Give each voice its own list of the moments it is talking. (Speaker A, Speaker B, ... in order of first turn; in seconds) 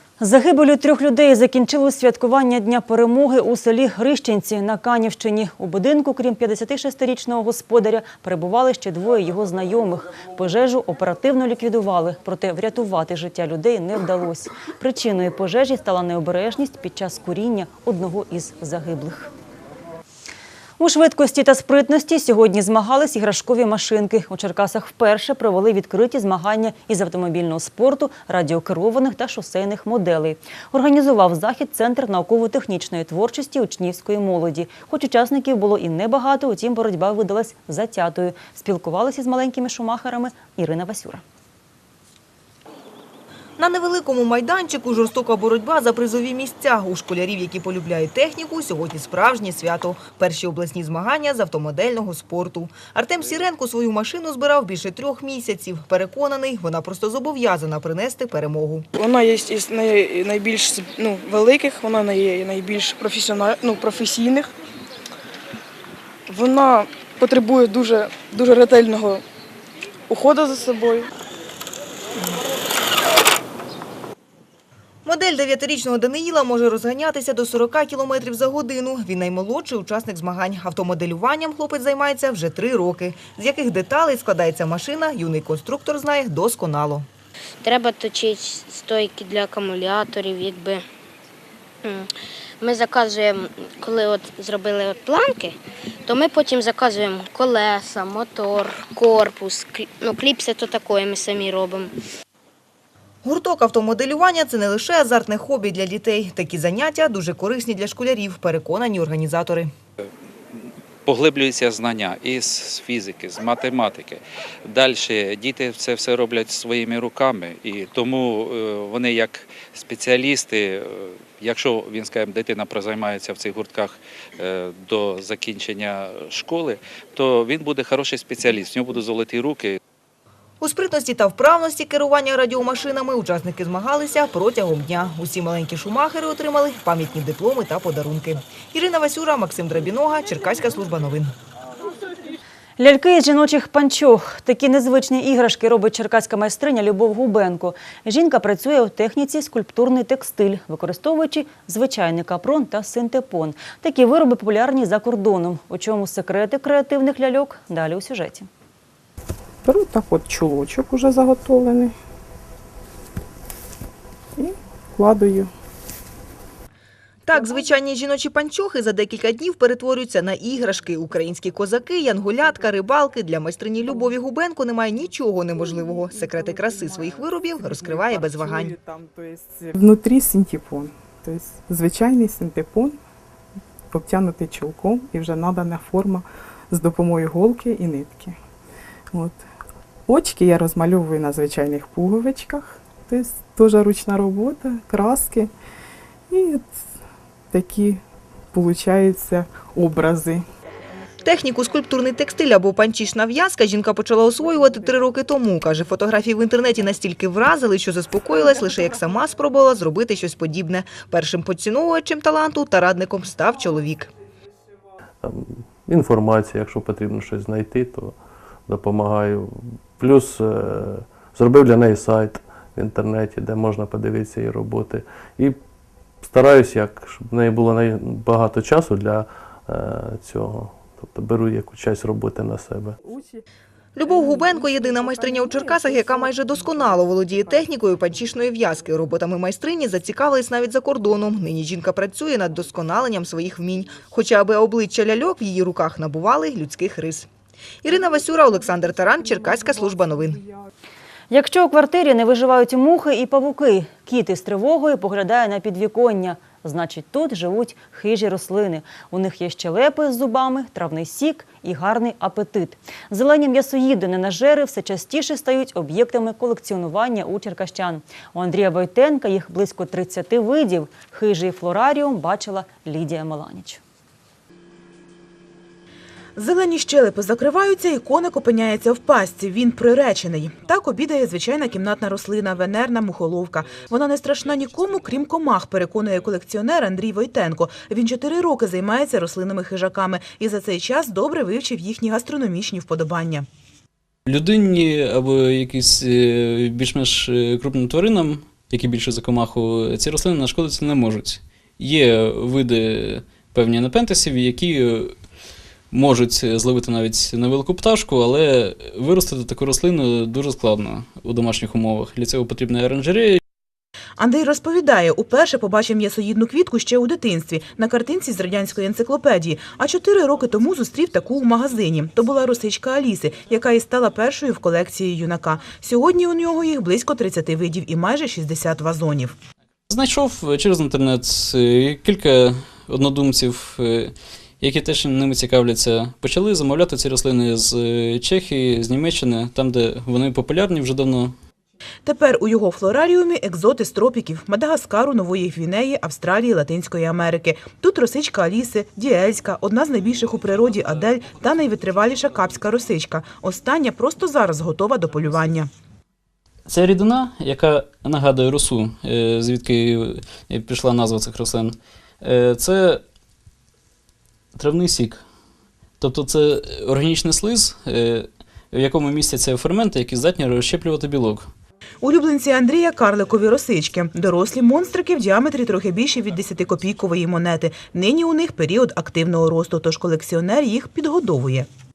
Speaker A: 0.2-19.3, 20.8-41.2, 142.8-158.5, 251.3-273.8
Speaker B: 43.6-58.8, 75.1-87.1, 103.2-109.7, 130.6-141.2, 167.3-178.7, 201.2-214.1, 234.0-247.3, 247.8-250.4
Speaker C: 58.9-64.5, 66.3-69.2, 70.1-71.1
Speaker D: 87.6-90.8, 91.8-101.9
Speaker E: 110.0-129.8
Speaker F: 159.6-161.9, 164.4-165.5, 177.9-183.0, 183.9-188.4, 189.1-189.4, 190.1-195.5, 196.3-196.9, 197.5-198.0, 198.5-200.5, 233.0-233.4
Speaker G: 215.2-218.1, 218.7-225.6, 226.2-232.9
Speaker H: 276.4-293.5, 314.2-329.4, 342.1-355.7, 372.0-381.7
Speaker I: 294.3-305.1, 305.9-313.4, 329.9-341.4, 356.7-363.0, 364.6-365.2, 366.0-371.5